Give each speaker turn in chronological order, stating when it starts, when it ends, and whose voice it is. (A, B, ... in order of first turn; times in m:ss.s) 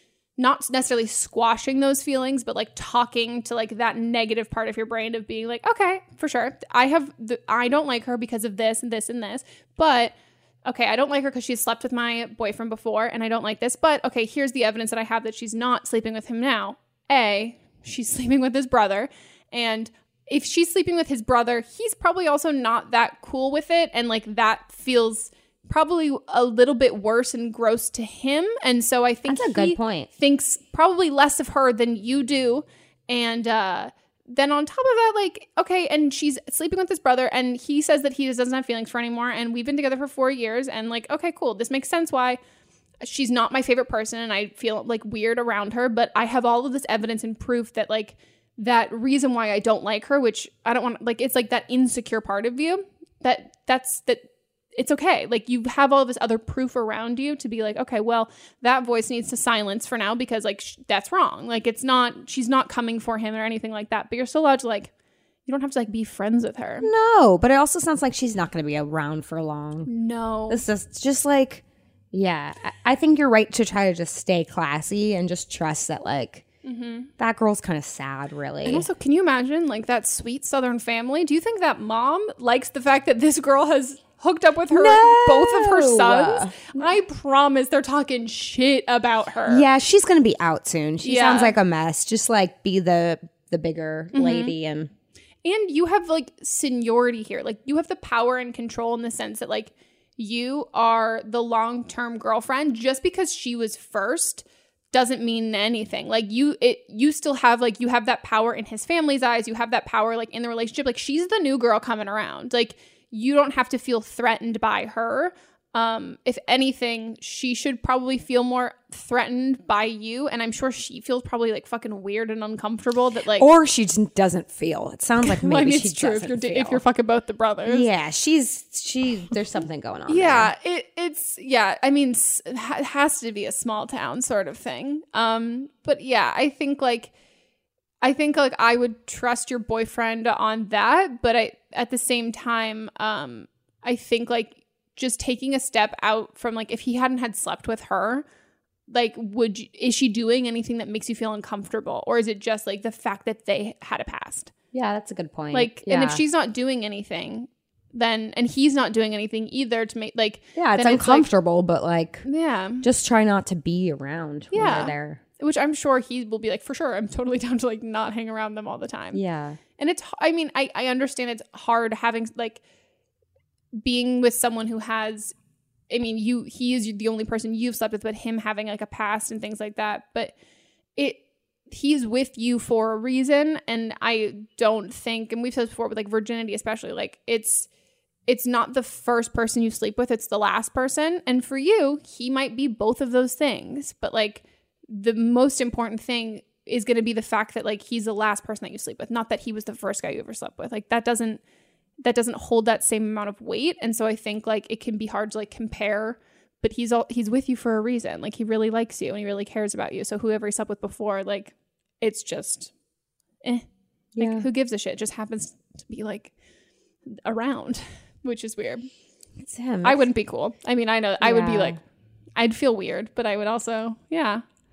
0:00.4-0:42.4 A
0:29.3-0:30.1 B
0:43.0-1:04.9 A
1:05.4-1:06.9 A
1:06.8-1:09.9 B
1:09.8-1:10.6 A
1:10.5-1:16.4 B
1:16.6-1:17.1 A
1:17.2-1:18.9 B
1:18.6-1:29.7 A
1:24.7-1:26.9 B
1:29.4-1:34.9 B
1:31.0-1:31.5 A
1:34.1-1:34.5 A
1:35.4-2:03.5 A
2:03.4-2:06.8 B
2:05.2-2:07.9 A
2:07.6-2:10.5 B
2:10.1-2:17.1 A
2:18.0-2:28.2 A
2:28.9-2:34.5 A
2:34.7-2:36.2 B
2:35.5-2:41.3 A
2:40.5-2:42.2 B
2:42.2-2:42.8 A
2:42.8-2:45.2 B
2:44.5-2:49.2 A
2:49.1-2:49.6 B
2:49.8-2:52.6 A
2:53.8-2:55.3 A
2:55.9-3:00.3 A
3:01.0-3:07.7 A
3:08.3-3:21.4 A
3:22.0-3:32.7 A
3:34.1-3:34.4 B
3:34.2-3:36.3 A
3:37.0-3:38.9 A
3:39.4-3:40.0 B
3:39.8-3:41.8 A
3:41.2-3:41.8 B
3:42.4-3:44.4 A